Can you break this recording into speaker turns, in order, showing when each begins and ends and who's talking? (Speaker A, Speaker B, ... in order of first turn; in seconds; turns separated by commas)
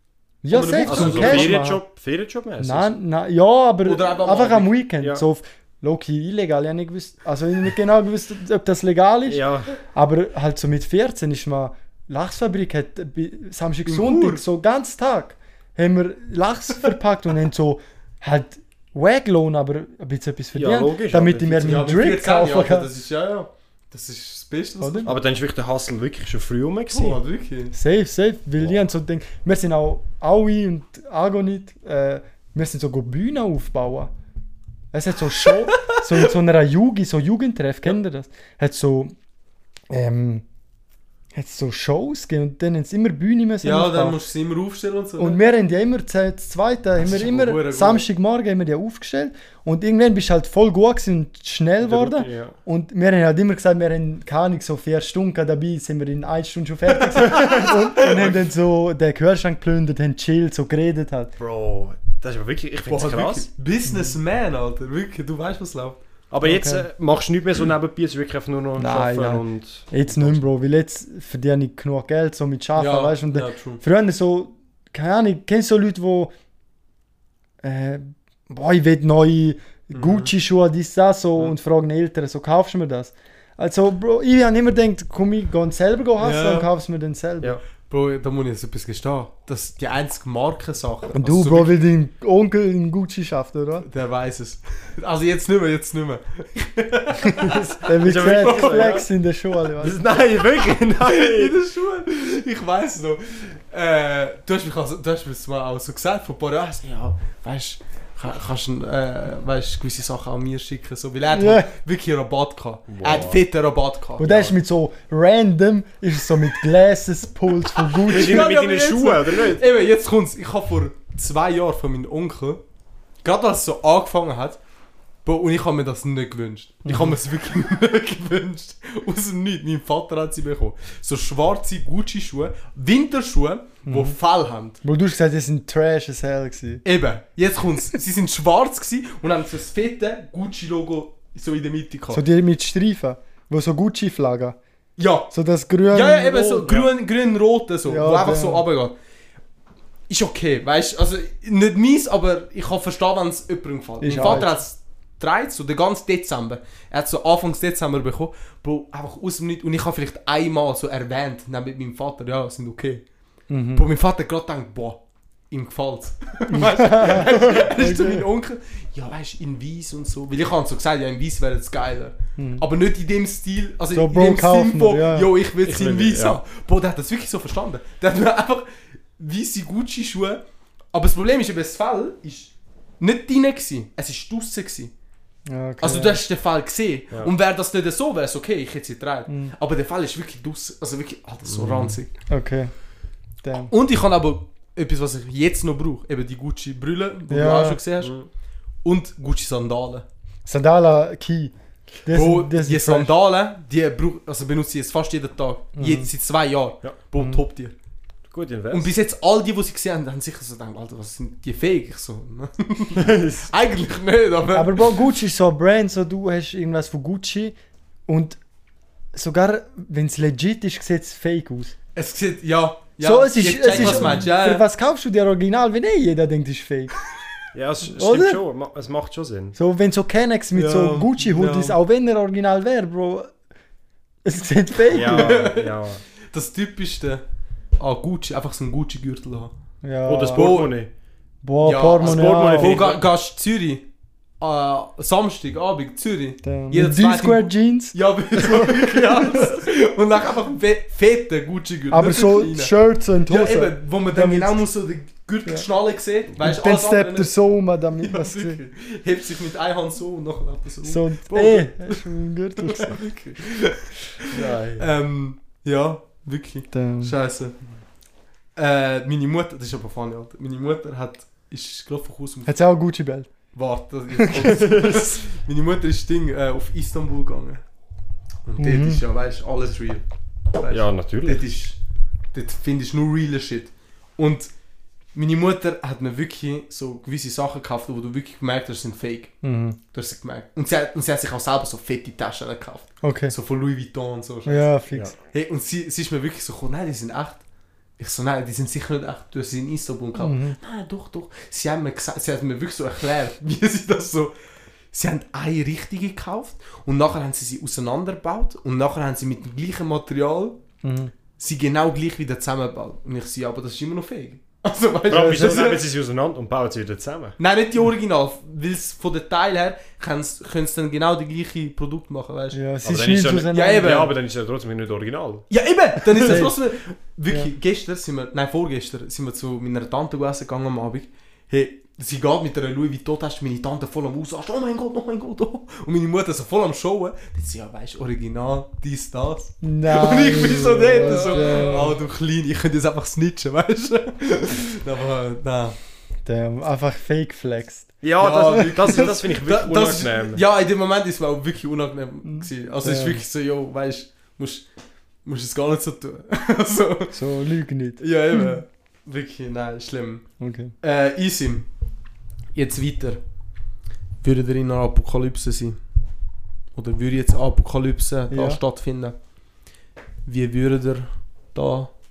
Speaker A: 0.4-1.8, Speaker B: 0.5-1.6, Speaker C: 0.8-3.0, Speaker A: 2.6-22.9, Speaker B: 3.8-4.7, Speaker C: 9.3-9.7, Speaker B: 13.8-14.4, Speaker C: 20.5-21.9, Speaker B: 21.6-25.2, Speaker A: 24.8-25.1, Speaker C: 25.1-27.2, Speaker B: 26.9-27.7, Speaker A: 27.7-34.1, Speaker A: 34.9-39.1, Speaker B: 35.4-36.2, Speaker A: 39.9-40.4, Speaker A: 41.3-44.2, Speaker B: 43.6-45.4, Speaker A: 45.2-61.3, Speaker B: 47.0-48.0, Speaker C: 51.8-52.5, Speaker B: 57.0-58.4, Speaker C: 61.4-63.5, Speaker B: 62.9-66.0, Speaker A: 63.9-64.2, Speaker C: 66.3-70.4, Speaker A: 66.4-66.8, Speaker A: 68.8-76.3, Speaker B: 72.8-73.8, Speaker A: 77.6-87.6, Speaker B: 79.9-80.3, Speaker B: 86.2-86.7, Speaker B: 87.9-91.8, Speaker A: 91.1-93.9, Speaker B: 93.8-99.0, Speaker A: 97.4-100.0, Speaker C: 98.0-99.0, Speaker C: 99.8-101.5, Speaker B: 101.0-114.5, Speaker A: 111.3-111.7, Speaker C: 112.9-113.4, Speaker A: 114.2-118.5, Speaker B: 118.0-122.6, Speaker C: 118.1-119.6, Speaker B: 123.2-124.6, Speaker B: 125.2-134.8, Speaker A: 126.8-127.1, Speaker A: 133.8-134.2, Speaker A: 134.8-136.8, Speaker B: 136.8-142.2, Speaker A: 142.1-144.6, Speaker B: 145.0-145.3, Speaker A: 145.3-146.9, Speaker B: 145.9-148.9, Speaker A: 147.8-148.6, Speaker B: 150.1-163.0, Speaker A: 154.0-154.5, Speaker A: 163.5-163.9, Speaker B: 163.7-184.9, Speaker A: 166.5-168.3, Speaker A: 172.4-172.6, Speaker A: 173.9-175.3, Speaker C: 175.6-176.4, Speaker A: 185.4-186.2, Speaker B: 185.8-192.1, Speaker A: 189.3-189.5, Speaker C: 191.4-192.0, Speaker A: 192.3-192.7, Speaker A: 193.4-193.7, Speaker B: 193.7-198.1, Speaker A: 197.3-197.8, Speaker C: 198.0-198.3, Speaker B: 198.8-200.1, Speaker A: 200.4-203.1, Speaker B: 202.1-207.7, Speaker A: 205.8-206.1, Speaker A: 207.2-207.4, Speaker C: 208.3-208.9, Speaker B: 208.7-214.9, Speaker C: 212.9-213.5, Speaker A: 214.5-217.5, Speaker A: 218.1-218.4, Speaker A: 219.1-221.7, Speaker B: 221.9-224.7, Speaker A: 223.0-226.9, Speaker C: 223.7-224.2, Speaker C: 227.5-229.6, Speaker A: 227.9-228.4, Speaker A: 229.6-233.3, Speaker B: 230.5-231.8, Speaker A: 234.2-235.4, Speaker C: 234.9-236.0, Speaker B: 235.0-235.8, Speaker B: 236.3-237.2, Speaker B: 237.8-239.5, Speaker A: 239.8-240.6, Speaker C: 240.1-240.9, Speaker B: 240.3-240.7, Speaker A: 241.4-242.8, Speaker B: 241.6-243.9, Speaker C: 242.0-243.0, Speaker B: 244.4-252.7, Speaker A: 246.4-249.6, Speaker A: 251.9-254.6, Speaker B: 253.2-257.3, Speaker A: 256.4-258.6, Speaker B: 258.0-267.6, Speaker A: 260.8-263.0, Speaker C: 264.3-264.9, Speaker A: 266.7-267.1, Speaker B: 268.6-272.5, Speaker A: 272.4-273.3, Speaker B: 273.5-277.6, Speaker A: 274.2-274.7, Speaker B: 278.4-280.0, Speaker A: 278.6-279.0, Speaker B: 280.5-281.8, Speaker C: 280.7-281.4, Speaker B: 282.3-284.5, Speaker B: 285.1-289.3, Speaker A: 289.4-289.8, Speaker B: 289.9-294.7, Speaker A: 293.0-293.3, Speaker A: 294.4-295.1, Speaker B: 295.3-297.4, Speaker B: 298.0-304.3, Speaker A: 300.2-300.6, Speaker B: 304.9-310.6, Speaker A: 310.8-311.1, Speaker B: 311.4-315.8, Speaker C: 315.1-317.4, Speaker A: 315.1-315.8, Speaker B: 317.4-322.6, Speaker A: 322.5-324.0, Speaker C: 322.8-325.5, Speaker B: 323.5-324.1, Speaker B: 325.5-345.8, Speaker C: 326.1-326.4, Speaker A: 326.2-326.6, Speaker A: 339.6-342.0, Speaker C: 341.2-341.6, Speaker A: 346.2-347.9, Speaker C: 348.0-350.4, Speaker B: 348.2-354.7, Speaker A: 352.2-353.2, Speaker B: 355.2-357.2, Speaker A: 357.1-358.6, Speaker B: 358.0-361.7, Speaker A: 360.4-360.7, Speaker B: 362.5-363.2, Speaker B: 364.2-365.8, Speaker B: 366.7-369.2, Speaker A: 368.3-368.6, Speaker B: 370.2-371.9